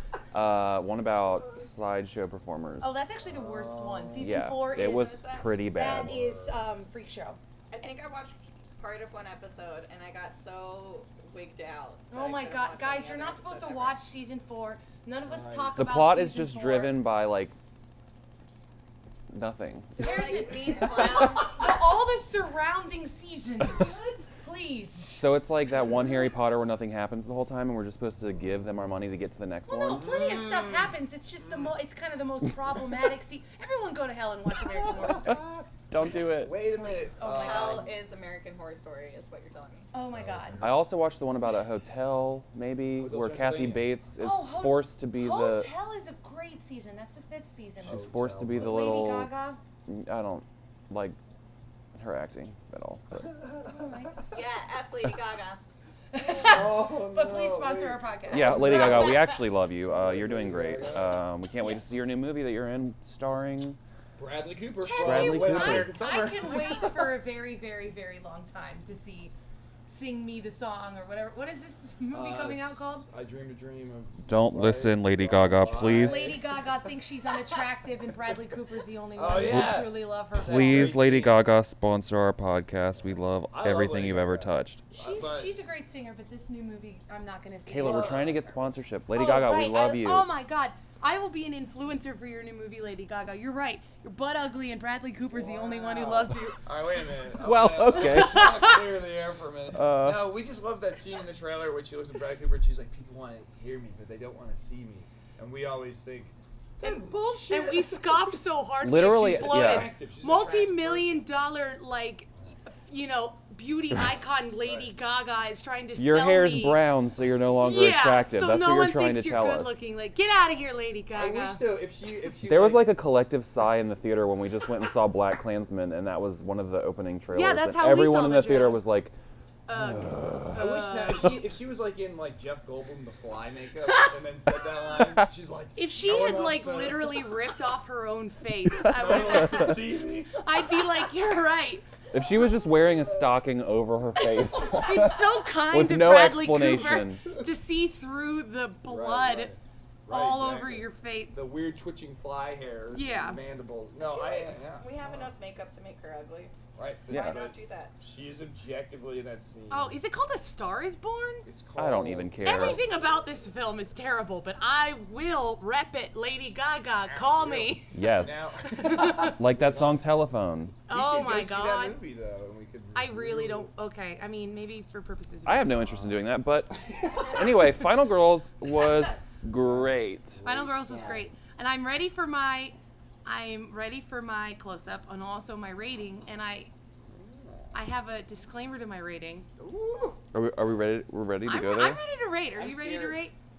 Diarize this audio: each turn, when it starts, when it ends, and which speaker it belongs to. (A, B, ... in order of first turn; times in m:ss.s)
0:00.3-0:02.9 A
0:02.8-0:05.2 B
0:03.2-0:04.4 C
0:04.2-0:06.2 A
0:04.6-0:05.6 D
0:05.7-0:07.4 B
0:05.8-0:06.7 C
0:07.7-0:14.0 D
0:12.1-0:17.0 B
0:15.3-0:15.9 C
0:15.8-0:17.6 A
0:19.3-0:19.9 A
0:20.0-0:21.7 D
0:20.0-0:25.3 B
0:23.8-0:24.2 C
0:25.2-0:30.1 A
0:29.7-0:35.5 B
0:29.9-0:31.0 C
0:34.6-0:37.9 C
0:35.9-0:36.6 A
0:36.6-0:37.9 B
0:37.3-0:39.9 D
0:39.9-0:40.6 B
0:40.1-0:40.8 C
0:40.6-0:45.7 A
0:43.0-0:43.9 C
0:44.2-0:49.6 B
0:47.8-0:49.1 C
0:47.8-0:49.3 A
0:49.9-0:51.2 A
0:52.0-0:53.3 A
0:53.3-0:54.3 C
0:53.7-0:54.4 B
0:54.3-0:55.6 D
0:56.1-0:59.3 B
0:56.2-0:59.2 C
0:58.3-1:03.8 A
0:58.5-0:59.4 D
0:59.8-1:01.2 C
1:04.2-1:07.0 C
1:04.8-1:09.3 B
1:05.0-1:06.0 A
1:09.9-1:13.0 B
1:12.1-1:16.6 C
1:14.3-1:16.3 A
1:15.8-1:21.0 B
1:19.2-1:21.4 C
1:19.4-1:19.8 A
1:20.4-1:24.8 A
1:23.0-1:25.5 C
1:24.9-1:28.4 B
1:27.7-1:30.3 A
1:27.8-1:28.3 C
1:29.1-1:36.6 B
1:35.3-1:48.4 C
1:37.4-1:38.8 A
1:38.0-1:38.8 B
1:39.7-1:40.3 A
1:46.8-1:56.8 B
1:48.8-1:49.9 A
1:49.0-1:51.2 C
1:54.6-1:54.9 C
1:56.0-1:59.8 A
1:57.6-2:01.7 B
2:01.1-2:03.0 C
2:02.4-2:09.1 A
2:07.3-2:08.8 B
2:09.7-2:11.4 B
2:09.8-2:10.6 A
2:10.5-2:17.3 C
2:15.8-2:21.9 B
2:18.9-2:20.8 C
2:22.1-2:27.2 A
2:22.1-2:23.3 C
2:24.6-2:29.5 B
2:28.8-2:35.3 C
2:30.1-2:31.4 B
2:32.9-2:33.4 B
2:34.0-2:36.6 D
2:36.8-2:40.0 C
2:37.1-2:37.4 A
2:37.1-2:38.0 D
2:39.7-2:41.5 B
2:41.4-2:42.8 C
2:41.8-2:42.8 A
2:42.4-2:49.4 B
2:47.1-2:50.1 C
2:47.9-2:48.5 A
2:49.1-2:50.8 A
2:50.9-2:52.0 B
2:50.9-2:53.7 C
2:52.9-2:55.9 B
2:55.5-3:00.4 A
2:55.8-2:57.5 C
2:59.5-3:01.2 C
3:00.4-3:06.7 B
3:07.0-3:07.7 C
3:07.7-3:09.5 B
3:09.6-3:10.2 C
3:10.3-3:12.0 A
3:11.4-3:13.4 B
3:12.6-3:13.2 C